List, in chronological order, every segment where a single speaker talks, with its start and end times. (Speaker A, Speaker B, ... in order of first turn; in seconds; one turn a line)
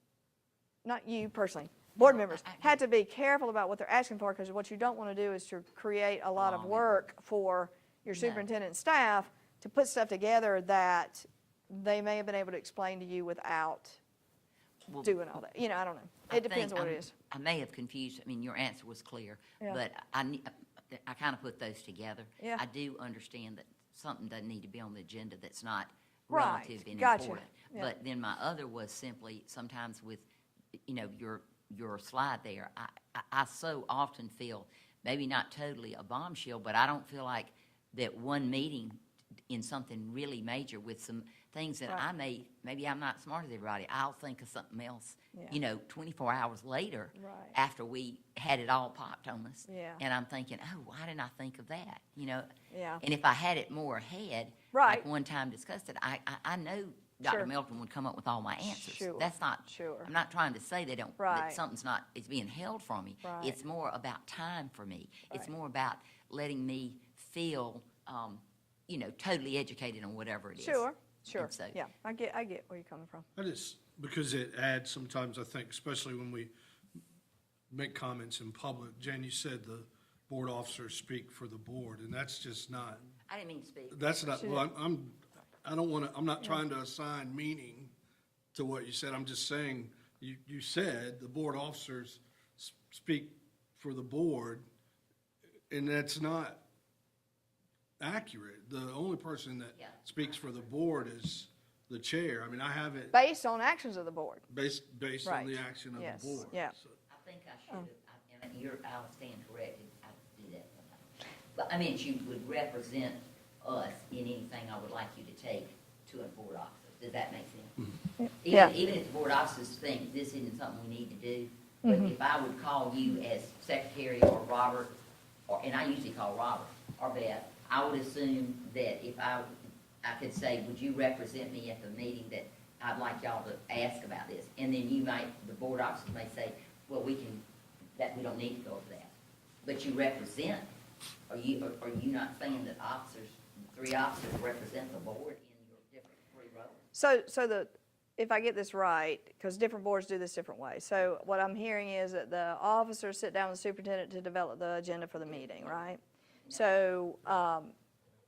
Speaker A: 0.8-14.0
Speaker B: 2.0-2.8
Speaker B: 6.4-7.0
Speaker B: 8.1-8.5
Speaker B: 14.9-15.2
Speaker A: 15.0-17.1
Speaker B: 16.3-30.3
Speaker A: 26.3-27.9
Speaker B: 30.9-39.0
Speaker B: 39.5-52.5
Speaker A: 45.3-45.6
Speaker A: 47.1-47.6
Speaker A: 49.7-50.0
Speaker A: 52.7-53.0
Speaker B: 53.0-71.8
Speaker A: 54.7-55.1
Speaker A: 57.2-57.5
Speaker A: 58.7-60.1
Speaker A: 61.2-61.6
Speaker A: 63.2-63.6
Speaker A: 70.6-73.3
Speaker C: 73.4-76.5
Speaker C: 77.7-83.0
Speaker B: 83.3-84.5
Speaker C: 83.9-87.9
Speaker A: 84.4-84.7
Speaker C: 88.5-94.6
Speaker C: 95.7-96.6
Speaker C: 98.0-103.1
Speaker B: 99.8-100.1
Speaker A: 103.1-104.4
Speaker C: 104.5-106.6
Speaker A: 105.2-106.7
Speaker B: 107.1-117.8
Speaker A: 118.2-118.8
Speaker B: 118.4-124.9
Speaker A: 121.8-122.1
Speaker B: 125.5-137.4
Speaker B: 138.0-140.7
Speaker B: 141.3-146.8
Speaker A: 146.9-157.7
Speaker B: 155.2-155.8
Speaker B: 156.4-156.8